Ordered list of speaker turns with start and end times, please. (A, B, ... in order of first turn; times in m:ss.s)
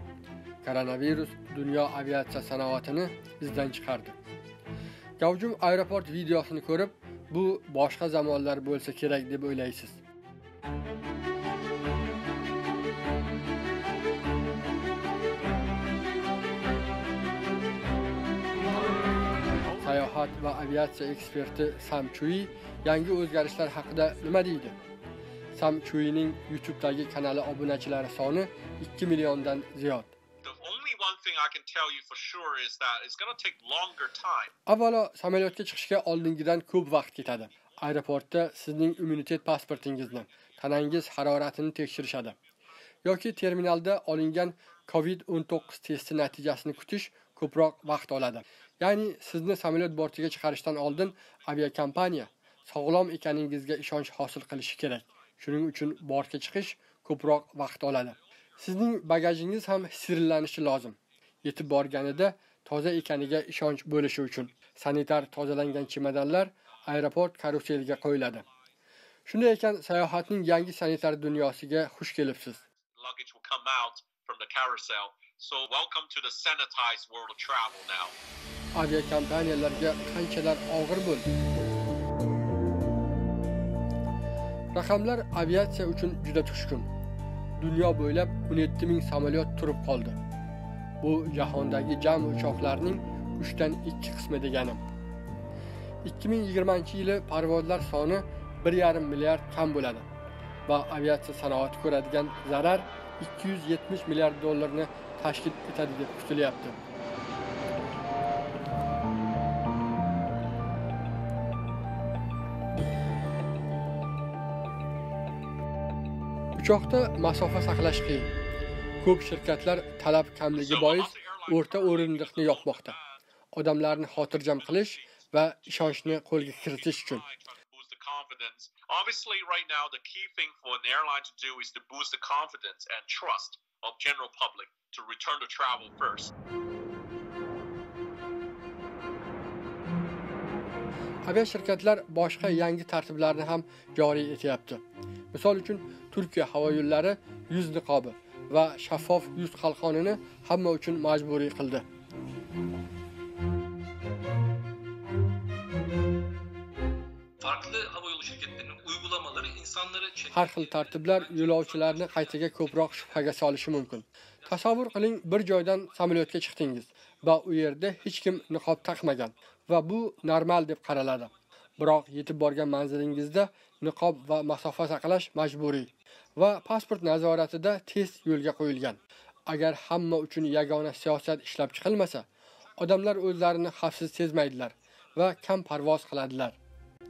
0:00.6-0:04.2 A
0:05.2-0:10.0 A
0:19.8-0:24.8 A
0:25.5-0:30.1 A
0:30.4-0:34.5 B
0:34.6-0:42.4 A
0:43.0-1:08.4 A
1:09.2-1:12.6 A
1:13.0-1:18.1 B
1:18.7-1:21.3 A
1:24.7-1:26.9 A
1:27.6-1:30.2 A
1:31.0-1:34.8 A
1:36.0-1:40.0 A
1:40.6-1:46.8 A
1:56.6-1:58.3 A
1:59.0-2:03.0 A
2:00.5-2:03.2 B
2:03.5-2:07.2 A
2:04.2-2:05.1 B
2:05.6-2:16.3 B
2:21.2-2:31.8 A
2:37.4-2:42.2 C
2:40.3-3:02.2 A
3:02.8-3:06.6 A